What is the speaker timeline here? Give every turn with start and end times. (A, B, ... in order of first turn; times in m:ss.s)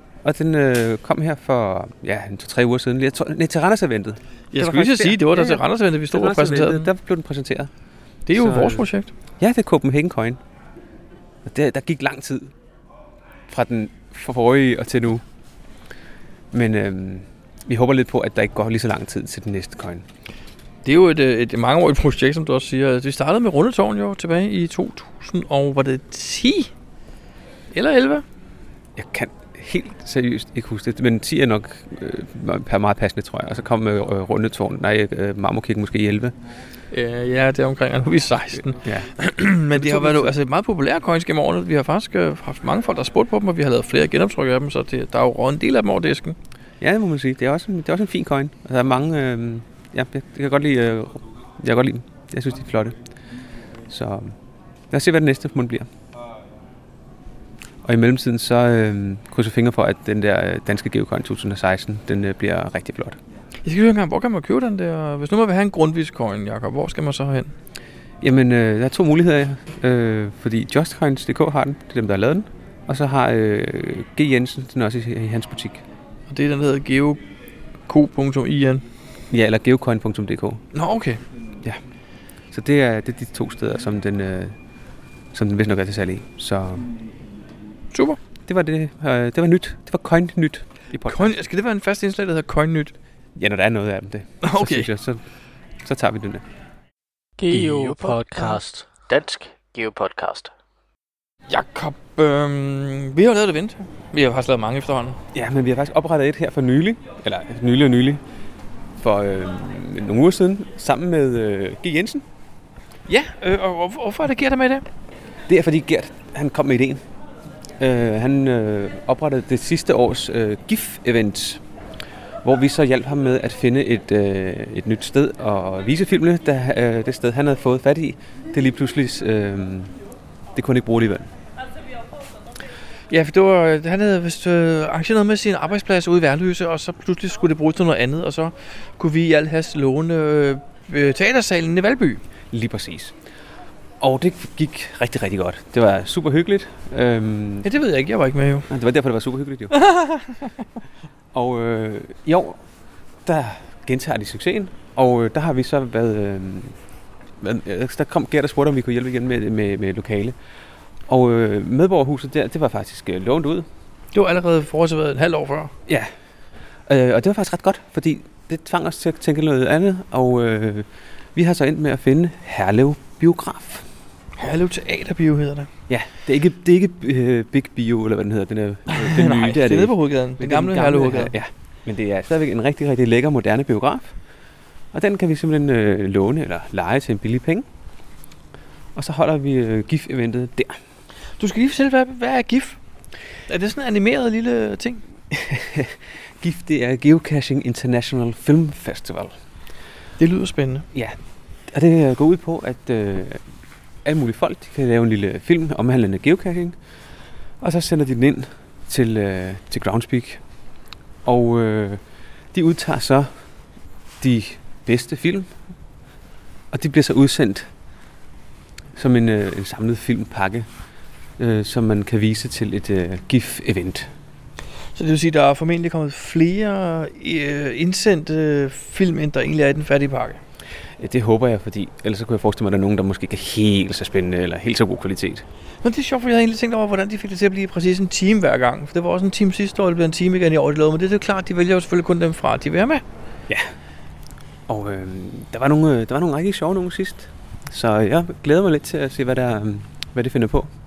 0:00.2-0:07.7 A
0:04.5-0:06.9 B
0:08.2-0:09.1 B
0:08.3-0:08.9 A
0:09.4-0:10.4 A
0:11.4-0:12.5 A
0:13.5-0:15.2 A
0:16.5-0:20.0 A
0:20.8-0:26.7 B
0:27.7-0:28.2 B
0:28.9-0:36.3 A
0:36.9-0:46.4 B
0:38.8-0:39.1 A
0:39.7-0:40.3 A
0:46.8-0:53.0 A
0:53.9-0:54.3 A
0:54.9-0:55.9 A
0:57.8-1:03.2 A
1:03.6-1:07.5 B
1:08.2-1:15.8 A
1:16.3-1:17.2 B
1:17.9-1:18.8 B
1:19.3-1:20.6 A
1:20.7-1:21.2 B
1:22.5-1:24.6 A
1:25.3-1:26.9 A
1:27.9-1:28.2 B
1:28.4-1:31.4 A
1:31.0-1:32.9 B
1:33.4-1:35.2 A
1:34.4-1:34.9 B
1:35.8-1:36.4 A
1:37.4-1:40.5 C
1:41.5-1:45.2 B
1:45.3-1:48.2 A
1:49.0-1:52.2 A
1:53.1-1:54.8 B
1:55.5-1:57.0 A
1:57.8-2:01.6 A
2:02.4-2:09.9 A
2:10.5-2:11.3 A
2:13.1-2:22.2 B
2:22.5-2:23.1 A
2:24.0-2:27.7 A
2:27.6-2:28.7 B
2:28.7-2:29.8 A
2:29.7-2:30.6 B
2:31.3-2:32.6 A
2:33.2-2:36.8 A
2:37.4-2:40.4 A
2:41.1-2:43.7 A
2:44.1-2:45.7 B
2:46.9-2:53.8 A
2:54.4-2:55.7 B
2:55.9-3:04.1 A
2:58.9-3:01.3 B
3:04.9-3:07.6 A
3:08.9-3:10.8 A
3:11.4-3:12.8 B
3:13.5-3:15.0 B
3:15.3-3:19.4 A
3:20.2-3:20.8 B
3:21.7-3:23.4 A
3:24.0-3:26.8 A
3:27.6-3:30.4 A
3:31.2-3:32.0 A
3:32.5-3:33.3 A
3:34.2-3:35.5 A
3:36.7-3:37.7 A
3:38.9-3:40.7 A
3:41.4-3:44.1 A
3:44.9-3:50.4 B
3:51.0-3:55.4 A
3:55.8-4:03.0 B
4:04.7-4:10.7 A